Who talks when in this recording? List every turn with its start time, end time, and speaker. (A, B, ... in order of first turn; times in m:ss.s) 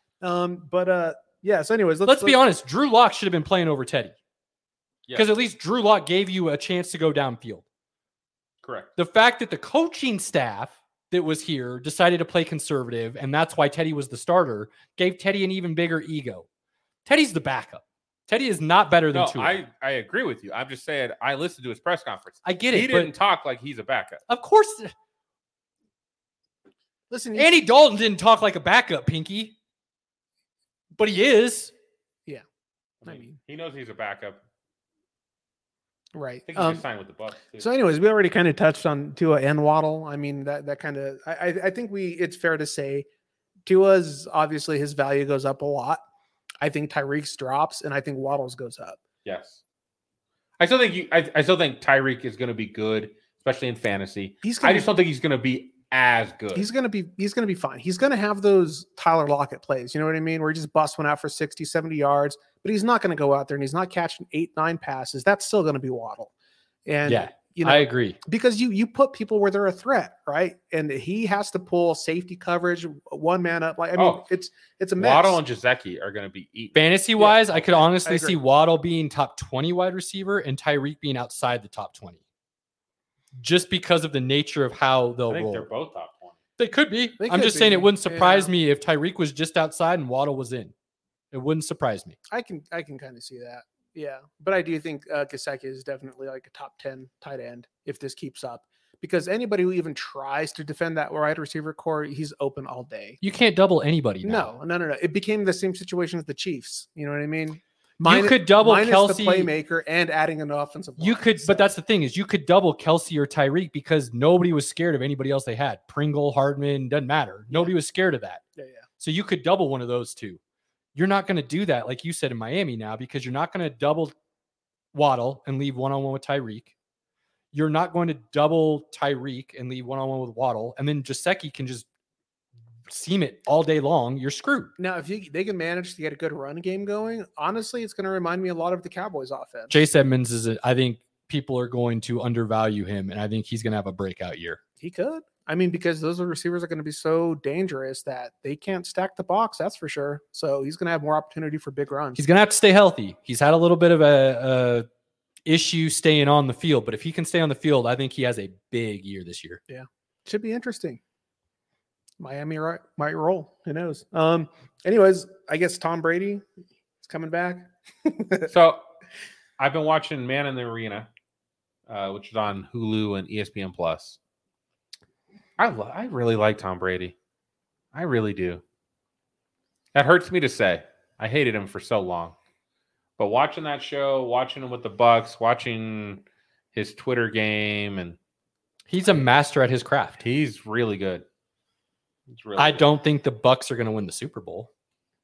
0:00.2-0:02.4 A
0:02.1-0:04.2 B
0:05.2-0:07.6 B
0:08.6-0:08.9 C
0:09.0-0:16.5 B
0:17.1-0:19.6 B
0:19.1-0:24.2 C
0:22.4-0:23.1 B
0:24.3-0:24.9 B
0:27.1-0:27.6 A
0:27.4-0:29.6 B
0:31.0-0:31.7 B
0:33.0-0:34.4 C
0:33.0-0:33.4 A
0:36.2-0:36.8 A
0:36.5-0:37.7 C
0:37.6-0:43.1 A
0:43.7-0:46.0 A
0:46.6-0:49.0 A
0:49.2-0:49.6 C
0:50.6-0:56.7 C
0:54.4-0:54.9 A
0:56.6-1:06.3 A
1:06.9-1:15.4 A
1:07.1-1:08.2 B
1:14.0-1:14.2 C
1:15.0-1:16.9 C
1:16.8-1:22.2 B
1:17.2-1:18.4 A
1:23.4-1:25.7 B
1:25.3-1:26.4 C
1:26.6-1:30.7 B
1:27.2-1:28.5 A
1:31.3-1:32.2 B
1:32.3-1:43.2 A
1:43.2-1:44.5 B
1:44.2-1:51.7 A
1:48.0-1:49.5 B
1:51.0-1:58.4 B
1:58.6-1:58.8 A
1:59.0-2:00.4 B
2:01.0-2:04.2 B
2:04.9-2:06.7 B
2:07.5-2:11.9 B
2:12.9-2:14.7 B
2:14.8-2:19.8 A
2:19.7-2:24.6 B
2:24.8-2:32.2 A
2:32.2-2:34.9 B
2:35.4-2:39.6 B
2:39.7-2:41.0 A
2:42.2-2:46.5 A
2:47.0-2:48.5 A
2:48.5-2:48.8 C
2:49.6-2:51.1 C
2:51.9-2:54.2 C
2:55.6-2:57.2 C
2:57.9-2:58.6 C
2:59.9-3:02.4 C
3:03.2-3:08.2 C
3:08.9-3:10.2 B
3:10.2-3:11.2 C
3:12.3-3:12.9 C
3:12.6-3:14.7 B